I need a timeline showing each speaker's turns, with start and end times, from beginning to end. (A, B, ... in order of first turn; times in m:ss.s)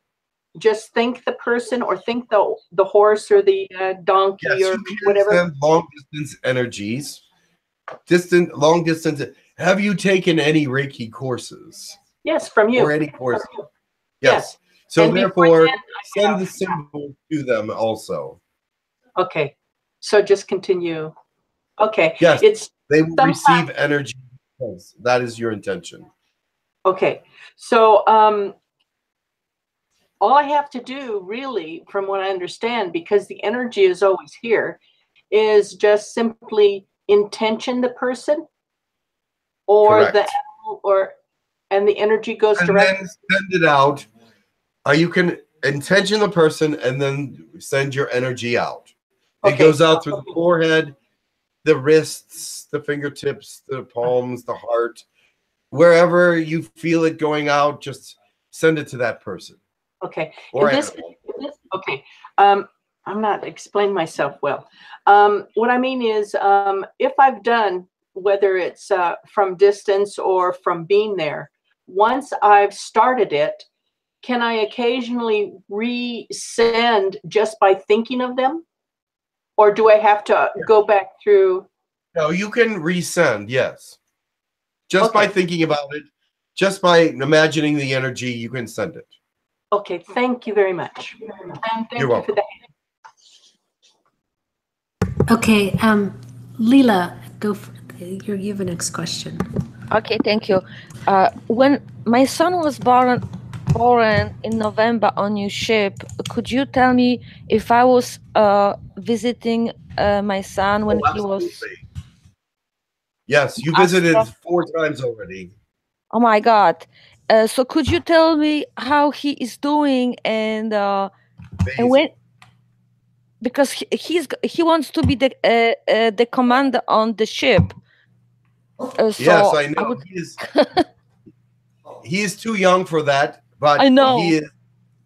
0:00.6-0:05.4 A
0:04.4-0:07.2 B
0:08.1-0:12.0 B
0:12.2-0:13.7 A
0:12.7-0:13.5 B
0:14.2-0:18.4 B
0:14.2-0:16.7 A
0:19.2-0:21.1 A
0:21.8-0:23.7 A
0:22.2-0:26.1 B
0:26.8-0:28.5 A
0:30.2-0:34.8 A
0:35.3-0:38.4 A
0:39.7-0:41.1 A
0:39.8-0:40.3 B
0:41.7-0:42.9 A
0:42.6-0:44.1 B
0:44.8-0:48.9 B
0:49.4-0:50.9 B
0:49.4-0:50.2 A
0:51.6-0:55.0 B
0:55.7-0:59.6 B
1:00.0-1:13.6 A
1:00.5-1:01.1 B
1:14.2-1:18.6 A
1:19.6-1:21.7 A
1:22.1-1:24.0 B
1:24.9-1:29.2 B
1:25.0-1:25.3 A
1:29.7-1:32.6 A
1:32.0-1:32.3 B
1:35.3-1:39.4 C
1:39.9-1:43.2 D
1:43.7-1:51.6 D
1:50.9-1:51.8 B
1:53.3-1:55.5 B
1:53.6-1:54.2 D
1:56.1-2:01.1 D
2:01.6-2:02.1 B
2:01.8-2:02.1 D
2:03.4-2:07.7 D
2:09.0-2:10.8 D
2:09.2-2:10.4 B
2:12.0-2:14.5 B
2:13.8-2:14.3 D